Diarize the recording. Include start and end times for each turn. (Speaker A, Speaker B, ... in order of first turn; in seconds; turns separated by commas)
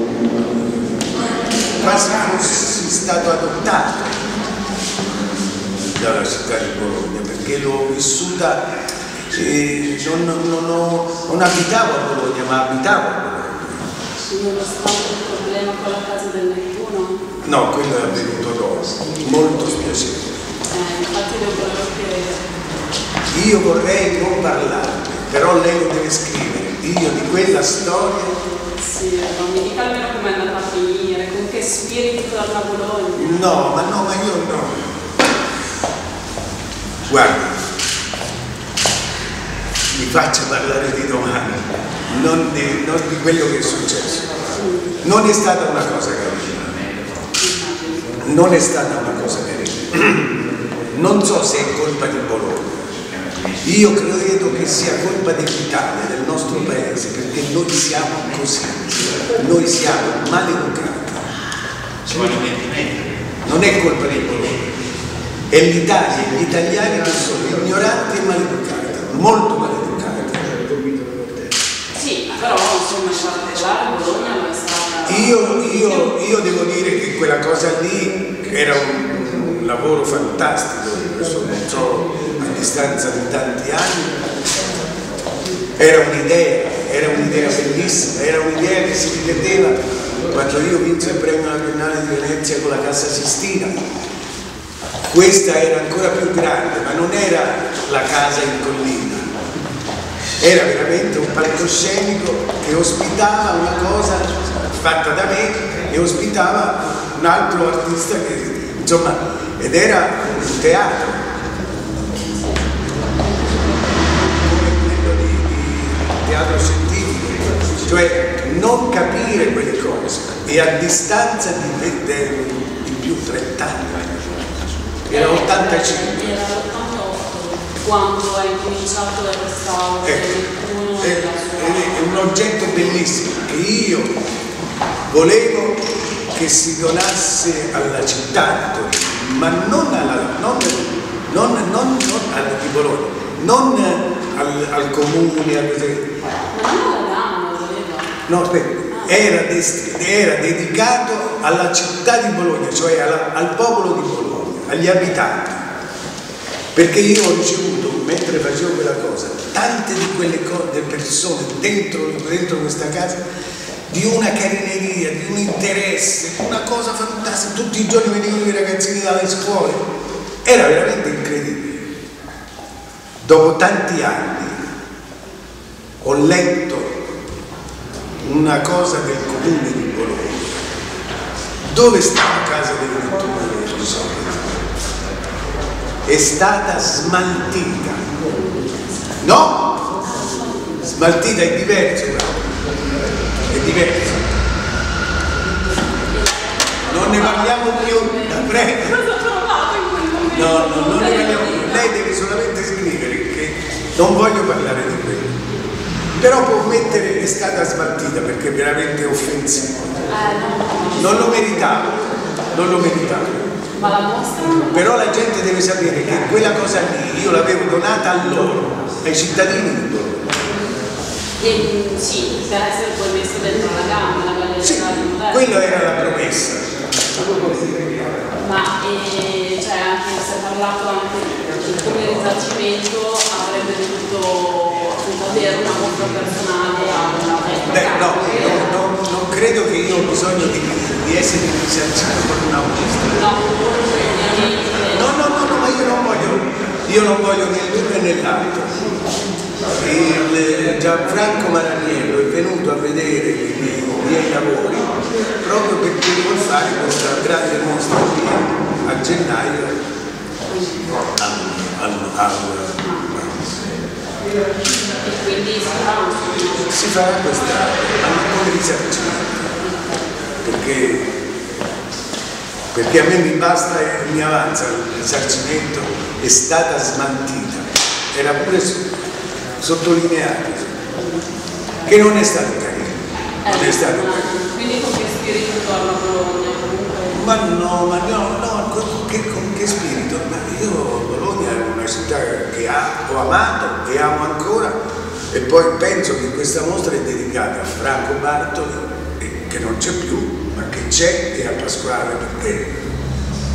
Speaker A: 0.2-4.2, Speaker A: 5.9-8.6, Speaker A: 9.3-13.9, Speaker B: 14.2-17.2, Speaker A: 17.4-20.3, Speaker B: 20.7-22.4, Speaker A: 23.3-28.4, Speaker B: 28.4-33.7, Speaker A: 33.2-34.9, Speaker A: 37.1-37.5, Speaker A: 39.9-44.2, Speaker B: 44.5-45.0, Speaker A: 45.0-46.8, Speaker B: 47.4-48.1, Speaker A: 48.2-50.2, Speaker A: 50.9-52.8, Speaker A: 53.6-61.3, Speaker A: 63.4-64.6, Speaker A: 65.5-71.5, Speaker B: 71.9-76.1, Speaker A: 75.1-84.2, Speaker A: 85.8-89.8, Speaker A: 90.3-93.8, Speaker A: 95.1-99.3, Speaker A: 100.4-111.2, Speaker B: 112.2-114.4, Speaker A: 114.4-124.5, Speaker A: 125.1-126.2, Speaker B: 125.1-132.0, Speaker A: 130.0-130.3, Speaker A: 131.0-134.1, Speaker A: 135.1-146.1, Speaker B: 146.5-148.2, Speaker A: 148.3-155.7, Speaker B: 148.9-149.3, Speaker A: 156.8-163.2, Speaker A: 163.9-169.8, Speaker A: 170.4-171.9, Speaker A: 173.2-174.6, Speaker A: 176.0-177.0, Speaker A: 178.2-180.5, Speaker A: 181.7-184.6, Speaker A: 186.1-188.0, Speaker B: 188.3-188.8, Speaker A: 189.2-189.8, Speaker B: 190.0-190.6, Speaker A: 190.8-192.6, Speaker A: 193.5-194.3, Speaker B: 196.1-201.9, Speaker A: 196.8-199.0, Speaker A: 200.3-205.3, Speaker A: 206.2-209.9, Speaker B: 210.1-211.6, Speaker A: 211.0-212.0, Speaker A: 212.5-213.5, Speaker B: 213.7-215.2, Speaker A: 214.7-220.3, Speaker B: 221.4-225.6, Speaker A: 224.6-226.7, Speaker B: 228.4-238.7, Speaker A: 237.7-243.3, Speaker B: 243.2-245.5, Speaker A: 244.9-248.8, Speaker A: 249.7-259.8, Speaker B: 260.5-261.0, Speaker A: 261.1-263.6, Speaker B: 265.0-266.7, Speaker A: 266.7-269.6, Speaker B: 269.6-270.1, Speaker A: 270.4-271.1, Speaker A: 272.7-278.8, Speaker A: 279.6-280.8, Speaker B: 280.9-281.3, Speaker A: 281.9-284.3, Speaker B: 283.4-287.2, Speaker A: 287.1-294.8, Speaker A: 295.3-302.8